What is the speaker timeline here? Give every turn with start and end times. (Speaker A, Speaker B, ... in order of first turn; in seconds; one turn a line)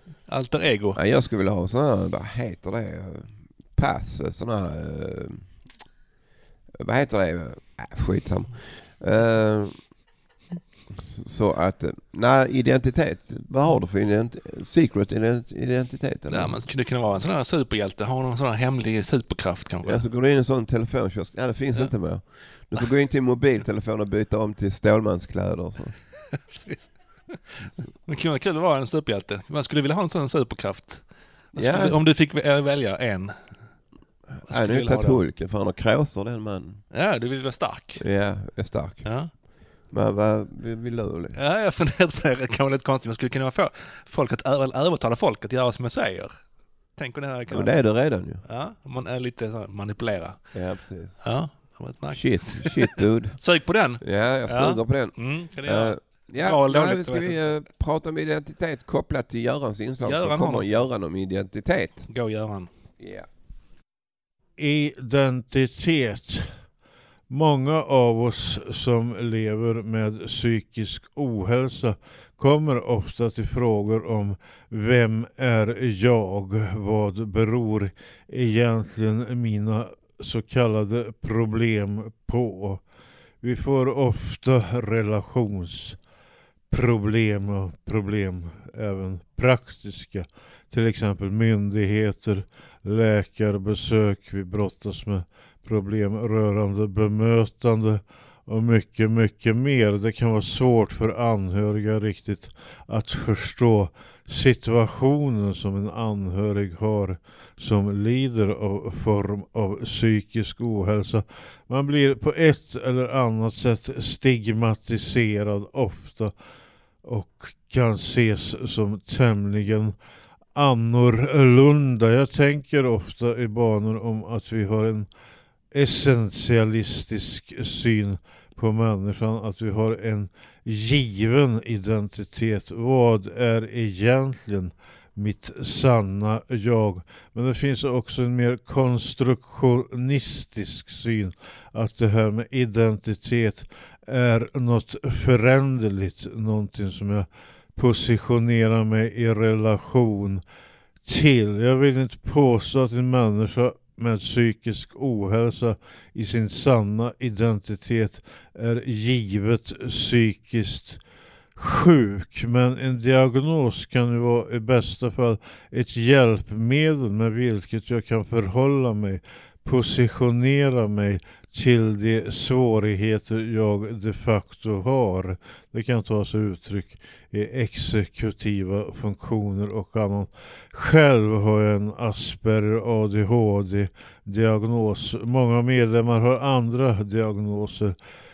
Speaker A: 0.3-1.0
Speaker B: 0.9-5.5
Speaker B: 6.8-9.8
Speaker B: 11.0-16.5
Speaker A: 16.3-20.0
Speaker B: 19.8-25.9
Speaker A: 26.5-27.4
Speaker A: 28.1-33.4
Speaker B: 31.6-32.0
Speaker A: 34.5-35.2
Speaker B: 34.5-36.8
Speaker A: 36.9-38.0
Speaker B: 38.0-39.0
Speaker A: 39.0-39.3
Speaker B: 39.9-41.4
Speaker A: 41.3-46.3
Speaker A: 47.0-47.8
Speaker B: 47.5-48.4
Speaker A: 48.4-50.4
Speaker B: 50.5-51.2
Speaker A: 51.2-57.6
Speaker B: 52.1-53.4
Speaker B: 54.0-62.0
Speaker A: 60.0-60.9
Speaker A: 62.1-62.7
Speaker B: 63.0-63.2
Speaker C: 64.6-66.5
Speaker C: 67.3-82.8
Speaker C: 83.4-86.0
Speaker C: 86.7-116.3
Speaker C: 117.0-119.9
Speaker C: 120.5-125.1
Speaker C: 125.7-150.4
Speaker C: 151.0-161.0
Speaker C: 161.6-187.9